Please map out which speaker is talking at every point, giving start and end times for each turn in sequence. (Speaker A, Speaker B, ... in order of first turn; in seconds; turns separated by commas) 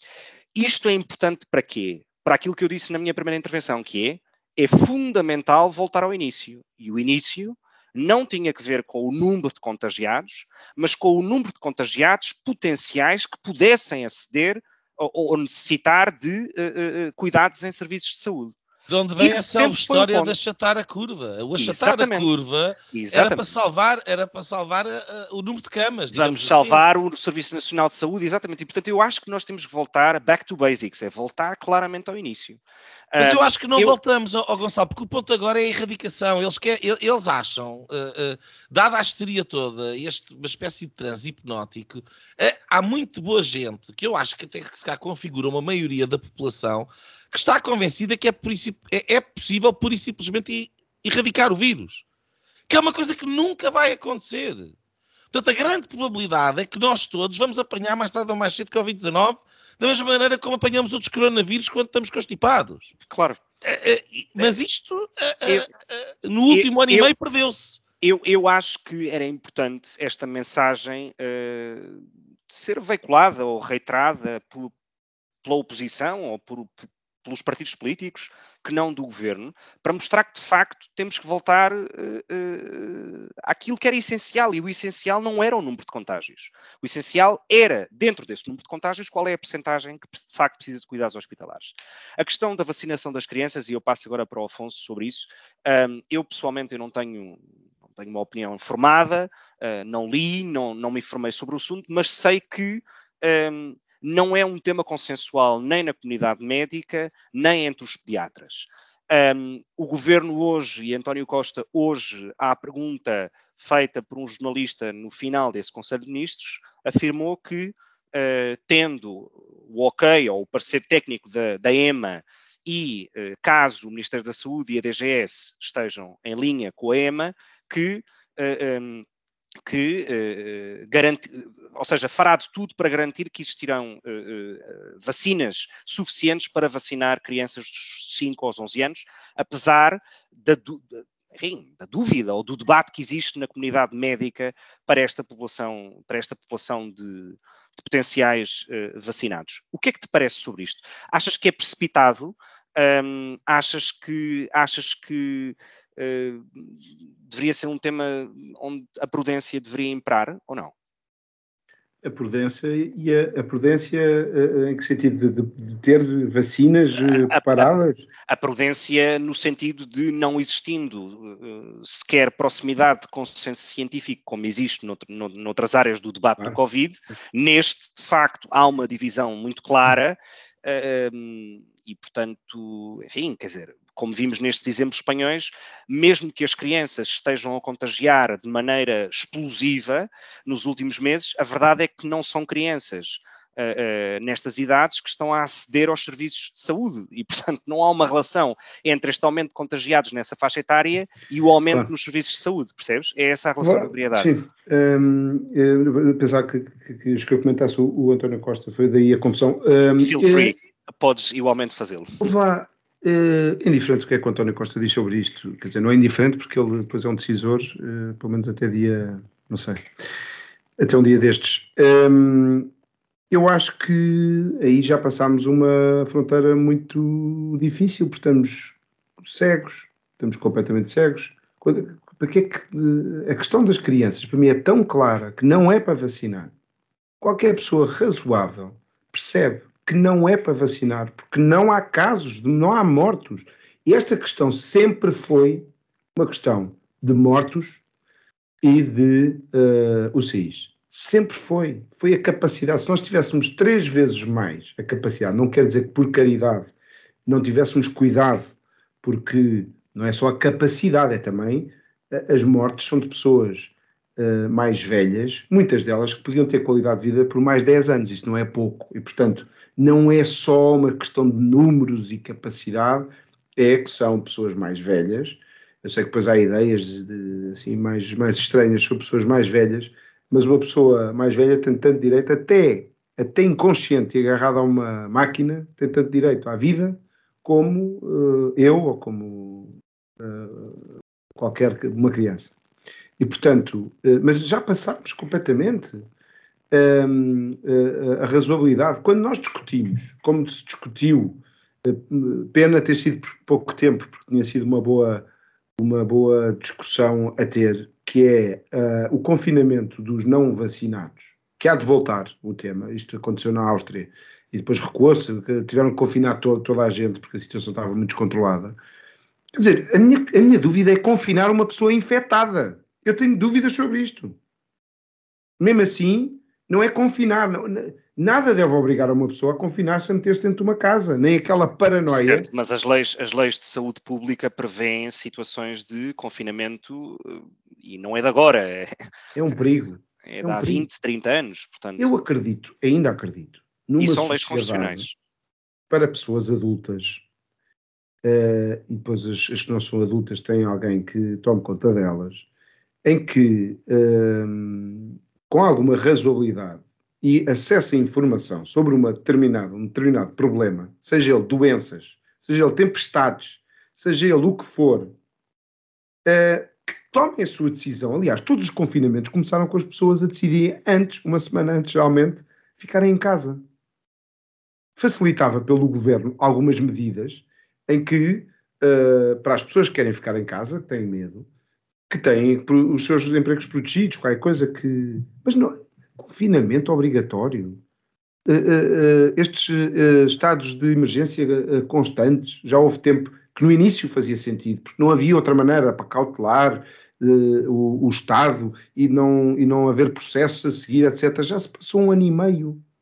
Speaker A: 0.5-18.5, Speaker B: 18.9-26.8, Speaker A: 19.2-20.4, Speaker A: 21.6-22.4, Speaker A: 22.9-23.5, Speaker A: 26.1-32.6, Speaker A: 33.1-34.0, Speaker B: 33.2-52.0, Speaker B: 52.7-54.7, Speaker B: 55.3-62.9, Speaker A: 63.1-63.4, Speaker B: 63.6-67.8, Speaker A: 66.5-67.1, Speaker A: 68.0-74.7, Speaker A: 75.4-97.4, Speaker A: 97.9-129.1, Speaker A: 129.6-160.7, Speaker C: 162.0-168.1, Speaker A: 167.0-167.7, Speaker A: 168.3-204.3, Speaker C: 203.6-210.5, Speaker A: 210.0-212.2, Speaker C: 212.2-219.8, Speaker C: 220.8-222.7, Speaker C: 223.3-236.5, Speaker C: 237.2-247.8, Speaker C: 248.6-256.7, Speaker C: 257.2-290.8, Speaker C: 291.4-292.5, Speaker C: 293.2-296.0, Speaker C: 296.7-318.8, Speaker C: 319.5-324.4, Speaker C: 325.6-332.5, Speaker A: 332.1-338.9, Speaker C: 339.3-340.9, Speaker A: 340.2-342.1, Speaker C: 342.0-345.1, Speaker A: 344.0-345.1, Speaker C: 345.9-347.2, Speaker C: 348.2-352.4, Speaker C: 353.0-365.1, Speaker C: 366.2-373.6, Speaker C: 374.9-381.4, Speaker C: 382.1-387.8, Speaker C: 388.5-402.8